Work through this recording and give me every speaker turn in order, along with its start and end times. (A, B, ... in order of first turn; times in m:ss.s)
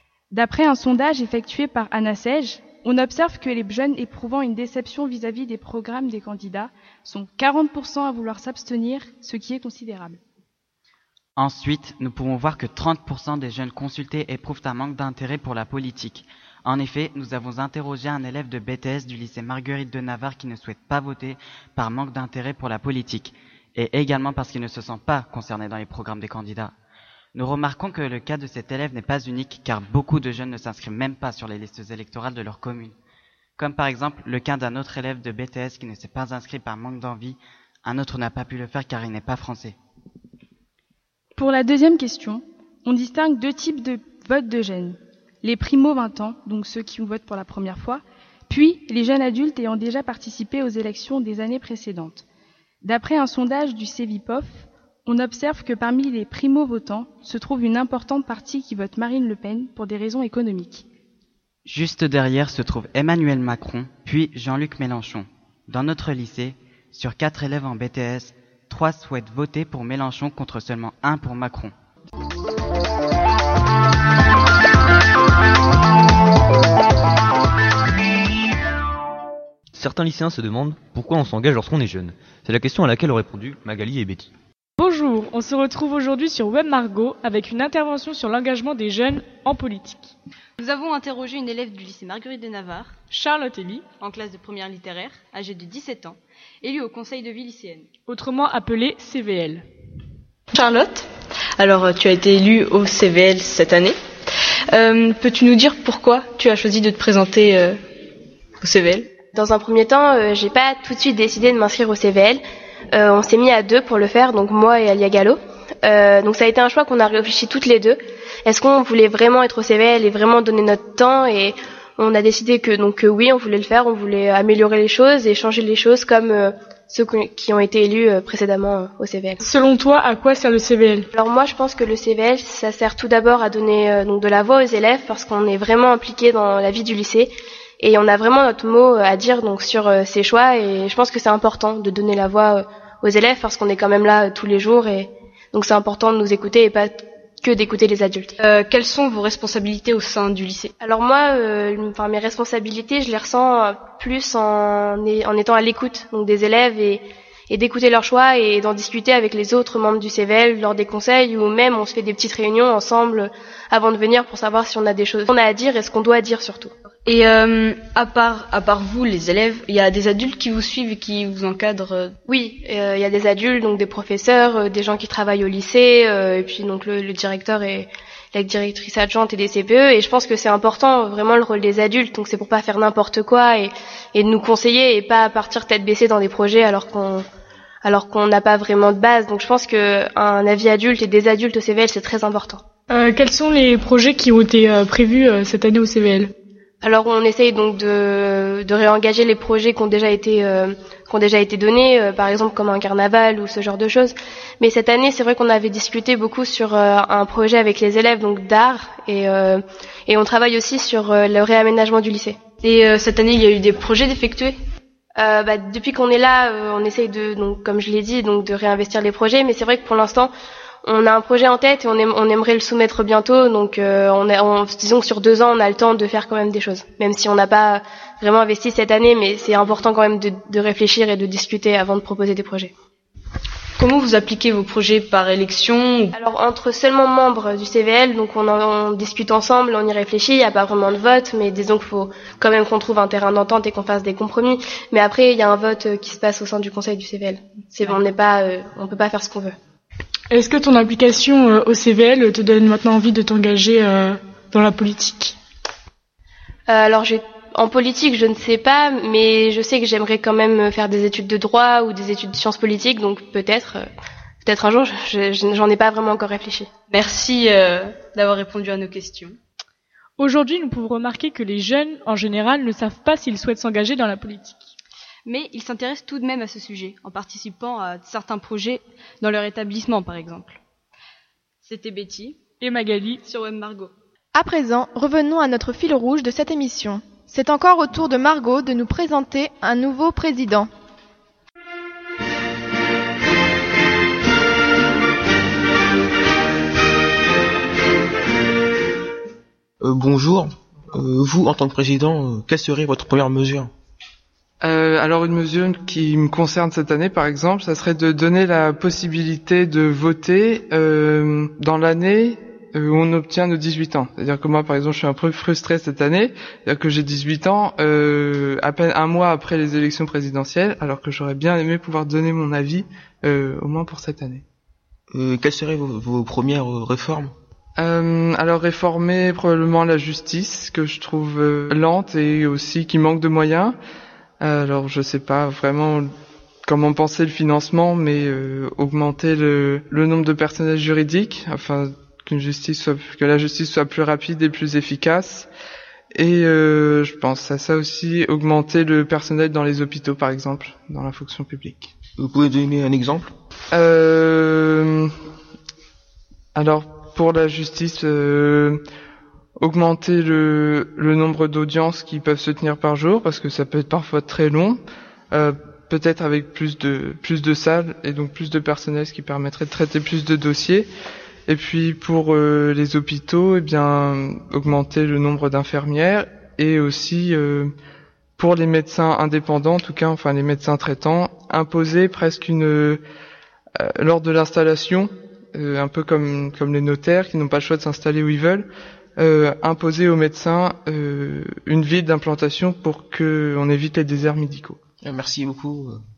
0:00.3-0:10.2 A
0:11.4-0:26.7 B
0:27.3-0:32.9 B
0:33.6-0:39.8 B
0:41.4-0:52.2 A
0:52.8-1:00.8 A
1:01.6-1:11.7 B
1:19.7-1:24.3 C
1:24.8-1:30.1 D
1:30.6-1:33.0 E
1:33.1-1:33.9 D
1:34.0-1:37.9 E
1:38.1-1:39.6 D
1:40.6-1:41.0 F
1:41.6-1:43.9 F
1:44.7-1:47.7 F
1:48.6-1:49.0 F
1:49.4-1:52.4 G
1:52.9-2:09.4 G
2:09.4-2:11.1 D
2:11.1-2:28.4 G
2:28.4-2:30.7 F
2:30.8-2:46.7 G
2:47.1-2:52.1 F
2:52.3-3:07.2 G
3:07.8-3:12.6 G
3:12.9-3:16.3 D
3:16.8-3:32.4 G
3:32.6-3:34.5 F
3:35.2-3:40.3 G
3:40.8-3:52.7 G
3:53.8-3:56.1 F
3:56.2-4:09.5 G
4:10.3-4:15.4 D
4:16.7-4:23.9 G
4:24.4-4:26.7 G
4:27.1-4:28.1 F
4:30.2-4:34.7 D
4:35.2-4:40.6 E
4:41.6-4:42.4 E
4:42.6-4:43.2 D
4:43.2-4:43.9 E
4:44.3-4:50.7 H
4:59.8-5:03.7 I
5:04.6-5:24.4 J
5:25.1-5:27.3 I
5:27.8-5:33.8 J
5:34.4-5:36.1 J
5:36.6-5:45.5 J
5:46.1-5:51.9 J
5:52.2-5:53.3 I
5:53.7-5:55.1 J
5:56.5-5:58.8 J
5:59.6-6:10.9 J
6:11.5-6:17.7 J
6:18.4-6:23.0 J
6:23.8-6:34.8 J
6:35.0-6:36.0 I